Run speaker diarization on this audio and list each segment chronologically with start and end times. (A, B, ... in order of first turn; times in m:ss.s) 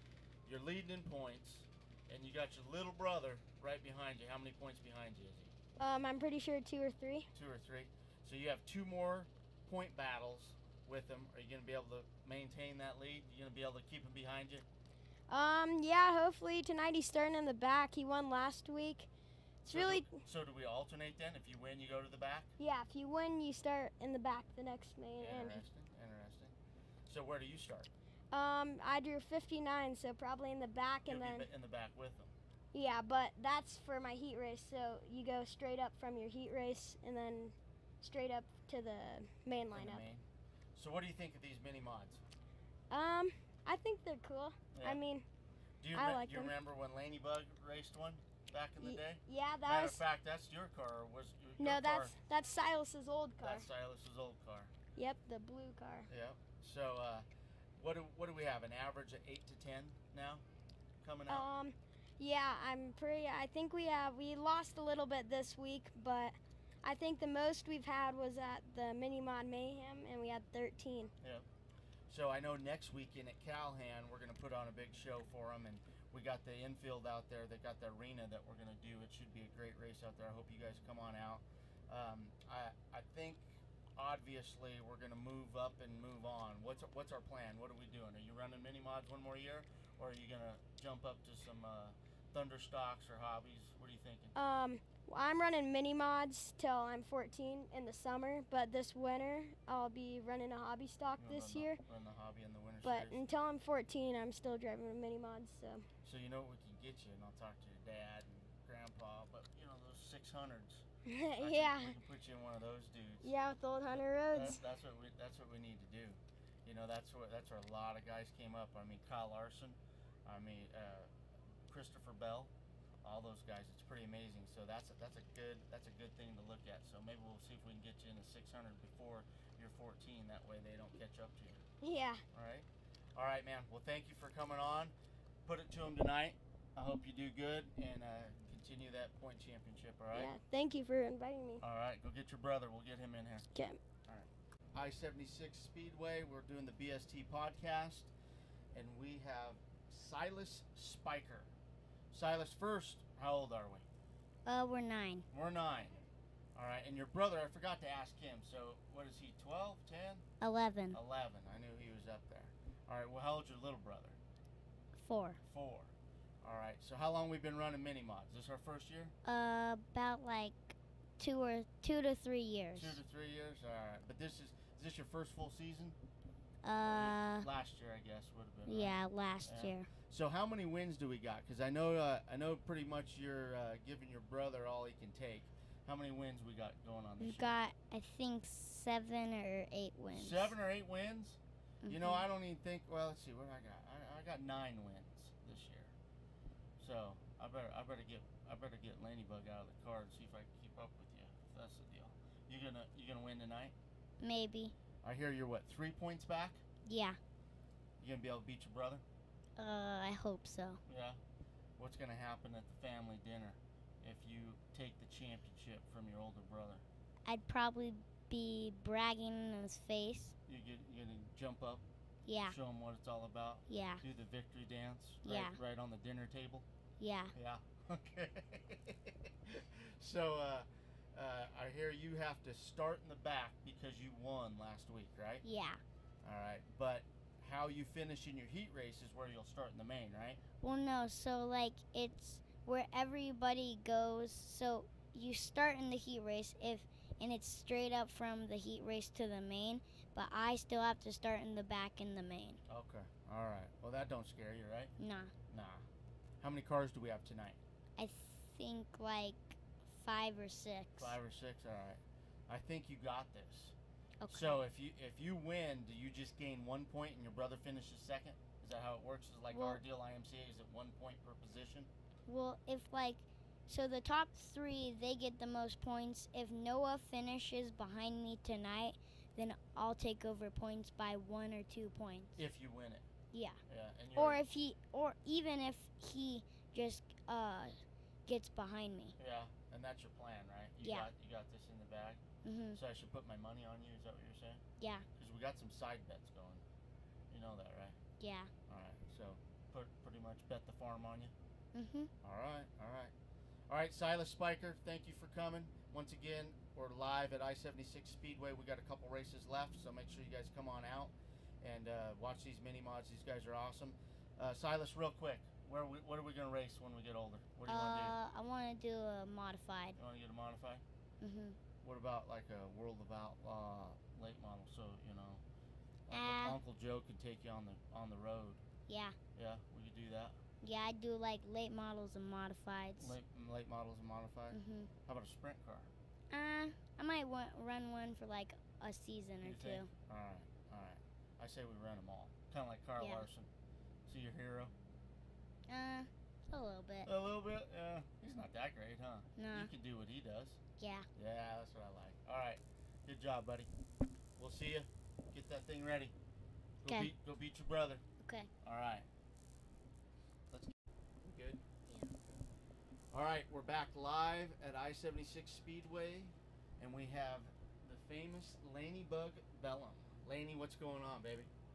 0:00.4-0:05.5 A
0:05.8-0:07.3 B
0:07.3-0:14.6 A
0:15.3-0:19.1 B
0:19.6-0:20.0 B
0:19.7-0:22.5 A
0:22.6-0:25.6 B
0:25.2-0:26.5 A
0:27.1-0:27.9 A
0:28.3-0:31.5 B
0:31.1-0:32.3 A
0:32.7-0:40.0 B
0:39.7-0:40.2 A
0:40.8-0:42.2 A
0:42.9-0:45.2 B
0:44.7-0:45.0 A
0:45.8-0:52.1 A
0:46.0-0:46.5 B
0:48.8-0:49.9 B
0:51.6-0:53.6 B
0:53.4-0:54.7 A
0:55.0-0:56.1 B
0:56.1-1:00.4 A
1:01.0-1:01.5 A
1:01.3-1:11.1 B
1:11.2-1:11.5 A
1:12.1-1:34.4 A
1:34.4-1:41.8 B
1:41.2-1:43.2 A
1:42.8-1:45.8 B
1:46.0-1:50.8 A
1:51.1-1:51.9 B
1:51.4-1:53.3 A
1:53.2-1:54.6 B
1:53.9-2:01.1 A
2:01.7-2:02.5 A
2:03.0-2:11.6 A
2:11.8-2:12.2 B
2:12.3-2:14.9 A
2:15.5-2:20.3 A
2:20.1-2:21.6 B
2:21.6-2:23.5 A
2:24.1-2:28.1 A
2:28.7-2:31.5 A
2:32.1-2:33.9 A
2:34.5-2:35.2 C
2:35.3-2:36.0 A
2:36.6-2:40.2 A
2:40.4-2:41.0 C
2:40.9-2:44.2 A
2:45.0-2:45.4 C
2:45.4-2:49.1 A
2:49.2-2:53.0 C
2:52.8-2:56.0 A
2:56.6-2:57.5 C
2:56.8-3:07.6 A
2:58.6-2:59.9 C
3:07.2-3:10.6 C
3:10.1-3:16.0 A
3:11.8-3:12.3 C
3:16.8-3:23.8 A
3:24.2-3:24.7 C
3:25.0-3:26.6 A
3:26.9-3:27.2 C
3:28.0-3:29.0 A
3:29.6-3:30.8 C
3:30.9-3:31.2 A
3:31.8-3:36.8 A
3:37.2-3:40.4 C
3:40.5-3:41.8 A
3:42.3-3:42.6 C
3:42.5-3:46.6 A
3:43.7-3:44.0 C
3:45.2-3:45.6 C
3:47.0-3:47.3 C
3:47.3-3:55.4 A
3:55.4-3:55.8 C
3:56.2-4:00.4 A
4:00.6-4:12.6 C
4:12.7-4:14.9 A
4:15.0-4:15.3 C
4:15.5-4:15.9 A
4:16.4-4:17.6 A
4:18.0-4:21.2 C
4:21.0-4:23.8 A
4:24.2-4:24.6 C
4:24.3-4:31.9 A
4:29.5-4:29.8 C
4:32.3-4:42.4 C
4:42.4-4:43.0 A
4:43.3-4:43.6 C
4:43.7-4:44.4 A
4:44.2-4:47.8 C
4:48.3-4:49.2 C
4:49.2-4:52.2 A
4:50.8-4:51.1 C
4:52.4-4:52.8 C
4:52.7-4:54.6 A
4:54.8-4:55.0 C
4:55.2-4:56.6 A
4:57.3-4:58.0 A
4:58.2-4:58.5 C
4:58.7-5:01.3 A
5:01.7-5:02.1 C
5:02.2-5:03.1 A
5:03.7-5:18.2 A
5:17.7-5:20.0 C
5:20.0-5:20.8 A
5:21.2-5:21.6 C
5:21.8-5:25.4 A
5:26.1-5:28.6 A
5:26.1-5:26.6 C
5:28.9-5:29.2 C
5:29.4-5:30.4 A
5:30.6-5:33.2 C
5:33.0-5:35.9 A
5:34.5-5:34.9 C
5:36.3-5:39.9 C
5:39.4-5:43.5 A
5:43.0-5:43.3 C
5:44.1-5:44.7 A
5:45.7-5:47.1 C
5:47.0-5:50.6 A
5:49.4-5:49.7 C
5:50.8-5:51.0 C
5:51.2-5:53.7 A
5:54.4-5:56.1 A
5:56.8-5:57.1 C
5:56.8-5:58.0 A
5:58.2-5:58.5 C
5:58.6-5:59.1 A
6:00.5-6:01.6 A
6:03.1-6:11.5 A